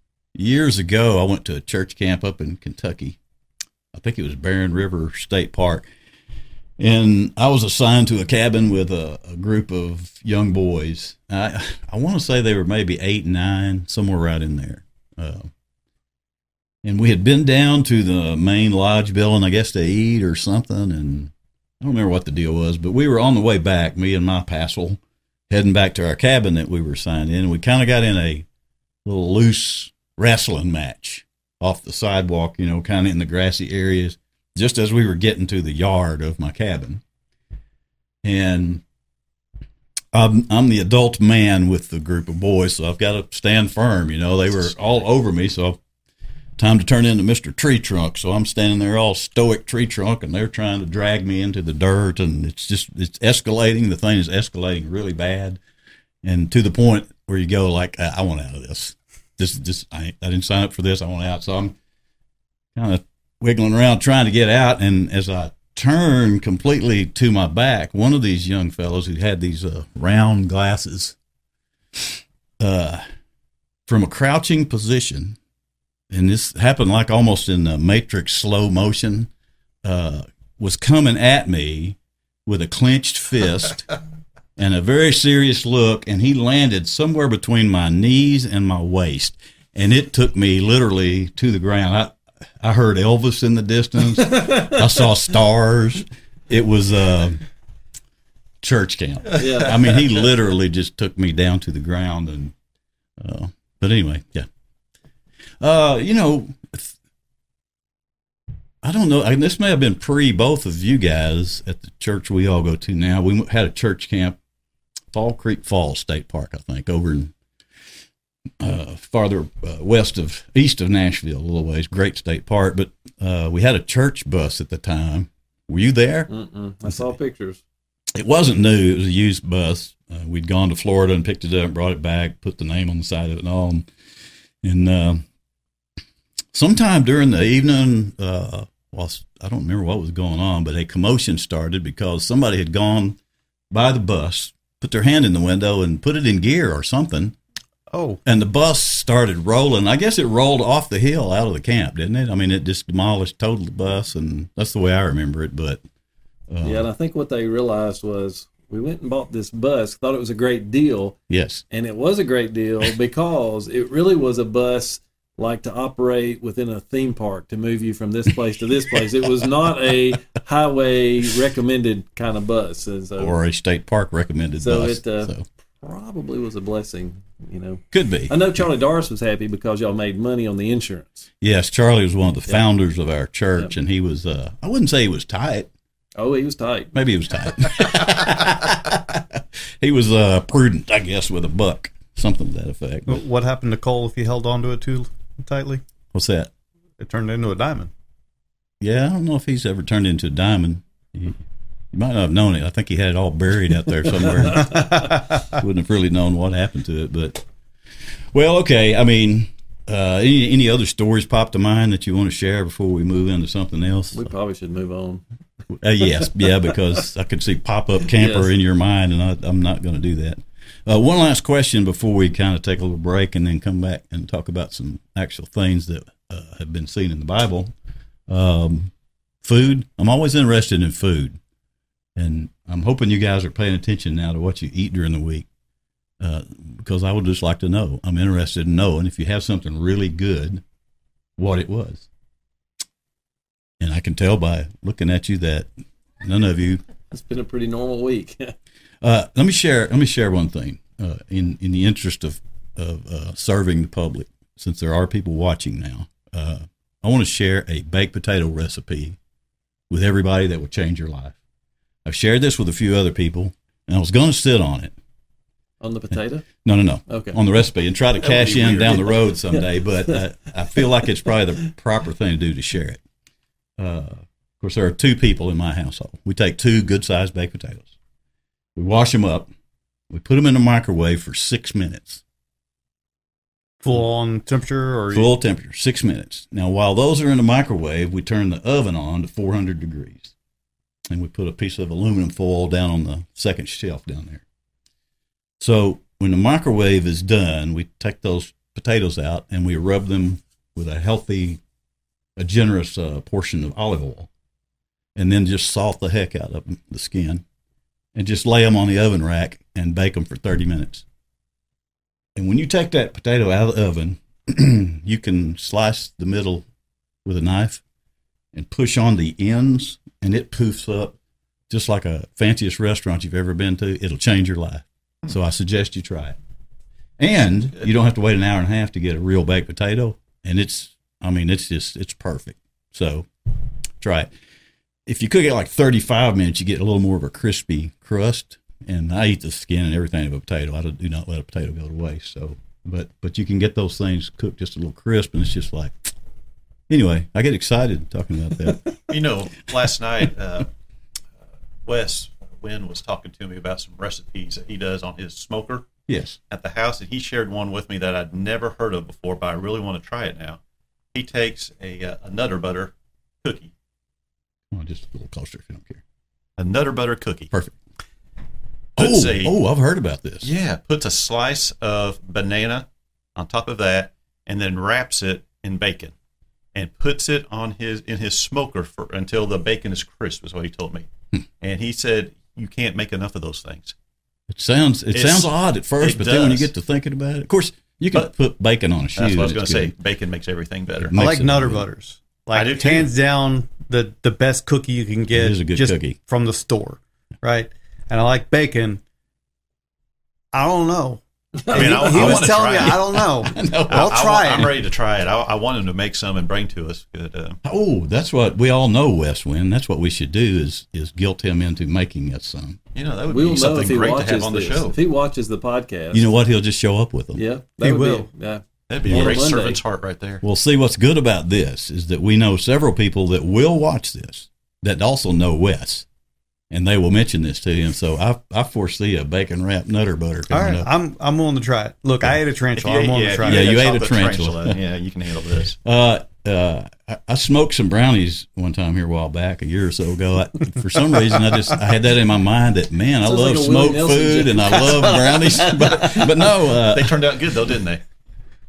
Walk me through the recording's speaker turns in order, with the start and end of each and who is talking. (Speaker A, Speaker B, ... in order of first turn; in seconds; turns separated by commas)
Speaker A: 0.3-3.2, Speaker A: 3.9-5.9, Speaker A: 6.8-15.5, Speaker A: 16.8-28.4, Speaker A: 29.0-37.0, Speaker A: 38.2-38.8, Speaker A: 40.1-45.8, Speaker A: 46.6-55.6, Speaker A: 56.2-61.8, Speaker A: 62.7-71.2, Speaker A: 72.6-73.0, Speaker A: 73.9-75.4, Speaker A: 76.1-79.3, Speaker A: 79.8-83.9, Speaker A: 84.5-97.4, Speaker B: 94.4-94.7, Speaker A: 98.6-102.5, Speaker B: 99.4-100.0, Speaker A: 103.2-104.5, Speaker A: 105.6-106.9, Speaker A: 108.8-114.4, Speaker A: 115.1-117.3, Speaker A: 118.6-126.3, Speaker B: 126.3-127.6, Speaker A: 126.9-127.1, Speaker A: 128.1-133.9, Speaker A: 134.6-135.2, Speaker A: 136.5-143.2, Speaker A: 143.7-147.3, Speaker C: 147.9-148.2, Speaker A: 148.2-155.8, Speaker A: 156.5-156.9, Speaker B: 156.6-161.2, Speaker A: 161.3-161.6, Speaker B: 161.7-173.3, Speaker A: 173.2-175.4, Speaker B: 174.6-181.3, Speaker A: 177.9-178.3, Speaker A: 181.4-185.7, Speaker B: 186.2-186.9, Speaker A: 186.9-193.2, Speaker C: 193.1-195.8, Speaker A: 196.1-196.5, Speaker C: 197.0-197.9, Speaker A: 198.8-201.4, Speaker A: 201.9-207.4, Speaker B: 204.4-204.7, Speaker C: 204.9-205.5, Speaker A: 208.0-214.3, Speaker B: 214.1-215.2, Speaker A: 215.8-227.7, Speaker B: 218.1-218.5, Speaker A: 228.3-228.9, Speaker A: 229.4-231.4, Speaker A: 232.2-235.5, Speaker A: 236.2-240.6, Speaker A: 241.4-242.1, Speaker A: 243.8-245.7, Speaker A: 246.2-246.8, Speaker B: 247.1-248.5, Speaker A: 249.0-259.2, Speaker A: 259.9-261.4, Speaker A: 262.0-264.9, Speaker B: 265.8-266.5, Speaker A: 266.1-273.0, Speaker B: 267.1-267.4, Speaker D: 268.2-269.1, Speaker B: 269.0-270.2, Speaker A: 273.8-277.9, Speaker A: 278.7-279.5, Speaker A: 280.1-282.2, Speaker C: 283.8-285.3, Speaker A: 285.1-290.3, Speaker A: 291.1-294.4, Speaker A: 295.6-301.6, Speaker A: 302.4-304.3, Speaker A: 305.1-307.4, Speaker A: 308.1-311.0, Speaker A: 312.3-316.6, Speaker A: 317.2-317.8, Speaker A: 318.5-321.1, Speaker A: 321.7-326.4, Speaker A: 327.2-333.3, Speaker A: 334.0-334.3, Speaker A: 335.1-346.1, Speaker A: 346.9-348.9, Speaker D: 349.1-350.7, Speaker D: 351.9-355.9, Speaker A: 356.1-356.4, Speaker D: 356.5-360.6, Speaker D: 361.1-362.9, Speaker D: 363.4-363.7, Speaker A: 364.7-366.0, Speaker D: 366.6-367.5, Speaker A: 367.5-367.8, Speaker D: 369.0-369.5, Speaker A: 369.0-370.5, Speaker D: 370.4-376.1, Speaker D: 376.7-381.1, Speaker D: 381.6-383.9, Speaker A: 384.5-389.9, Speaker D: 385.1-386.7, Speaker D: 389.1-391.1, Speaker A: 391.0-391.9, Speaker C: 391.1-399.0, Speaker D: 392.5-393.1, Speaker A: 395.3-396.2, Speaker C: 400.5-404.7, Speaker B: 401.7-402.4, Speaker D: 401.7-403.2, Speaker A: 402.1-404.8, Speaker D: 403.9-407.6, Speaker A: 407.6-412.8, Speaker D: 412.9-414.9, Speaker B: 413.3-416.3, Speaker A: 416.1-417.4, Speaker B: 417.3-419.8, Speaker C: 417.8-418.3, Speaker D: 418.9-420.4, Speaker A: 419.0-419.4, Speaker A: 420.4-426.1, Speaker A: 426.7-430.9, Speaker C: 430.5-433.7, Speaker D: 432.8-435.8, Speaker A: 433.4-434.8, Speaker A: 435.8-447.4, Speaker B: 443.2-446.2, Speaker D: 446.5-448.0